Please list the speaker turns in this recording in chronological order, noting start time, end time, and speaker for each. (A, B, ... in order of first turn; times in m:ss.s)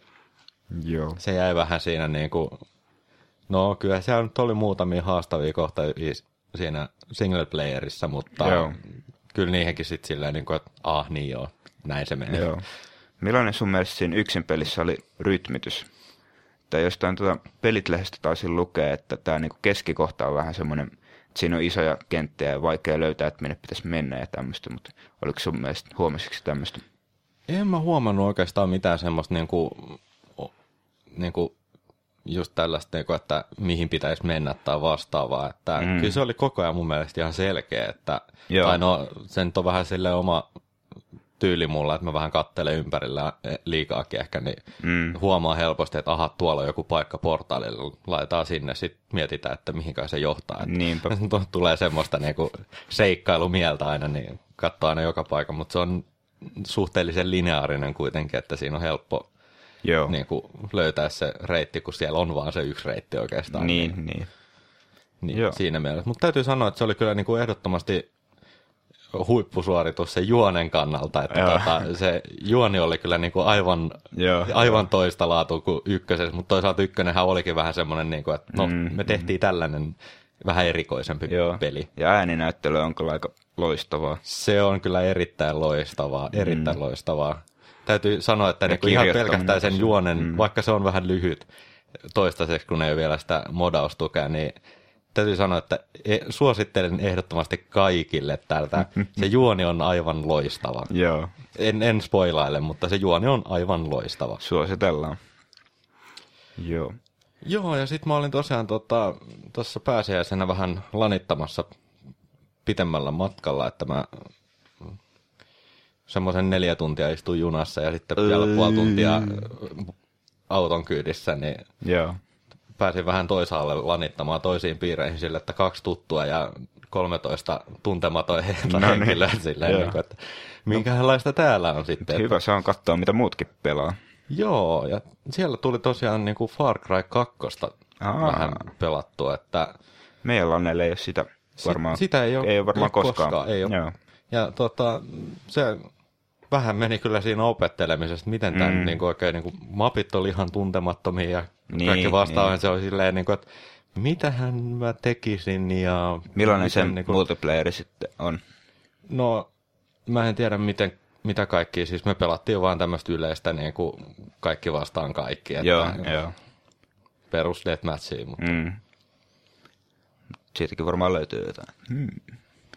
0:00.7-0:01.2 A
0:01.2-0:02.6 B
0:03.5-0:12.5 B
0:08.4-0:08.8 A
0:12.3-0:12.6 A
0:13.2-0:15.9 A
0:16.7-0:26.8 A
0:27.5-0:30.5 B
0:31.1-0:31.5 B
0:32.2-0:40.5 B
0:35.8-0:36.2 A
0:38.5-0:38.8 A
0:41.4-0:44.6 B
0:44.8-0:45.2 A
0:45.1-0:59.3 B
0:50.6-0:51.2 A
0:59.8-1:00.2 A
1:00.1-1:04.0 B
1:03.5-1:04.3 A
1:05.2-1:08.1 B
1:05.3-1:05.6 A
1:09.1-1:21.9 B
1:11.3-1:11.9 A
1:14.1-1:14.8 A
1:18.5-1:19.3 A
1:21.3-1:24.2 A
1:24.2-1:31.5 B
1:26.3-1:26.8 A
1:28.7-1:30.4 A
1:32.1-1:34.6 B
1:35.1-1:40.9 B
1:40.9-1:41.3 A
1:41.5-1:44.4 B
1:44.4-1:45.2 A
1:46.6-1:47.0 A
1:47.4-1:51.7 B
1:52.7-1:54.2 B
1:56.1-1:59.9 B
1:58.2-1:59.5 A
2:00.5-2:01.7 B
2:01.8-2:02.2 A
2:02.8-2:12.3 B
2:08.7-2:10.0 A
2:12.0-2:14.0 A
2:14.3-2:19.8 B
2:18.0-2:18.7 A
2:20.2-2:24.0 A
2:21.6-2:23.8 B
2:24.3-2:25.9 B
2:26.5-2:37.2 B
2:28.5-2:29.0 A
2:31.7-2:32.5 A
2:36.4-2:38.4 A
2:39.1-2:39.5 B
2:40.1-2:46.1 B
2:45.6-2:46.4 A
2:47.3-2:48.6 B
2:48.4-2:48.8 A
2:50.5-2:52.4 A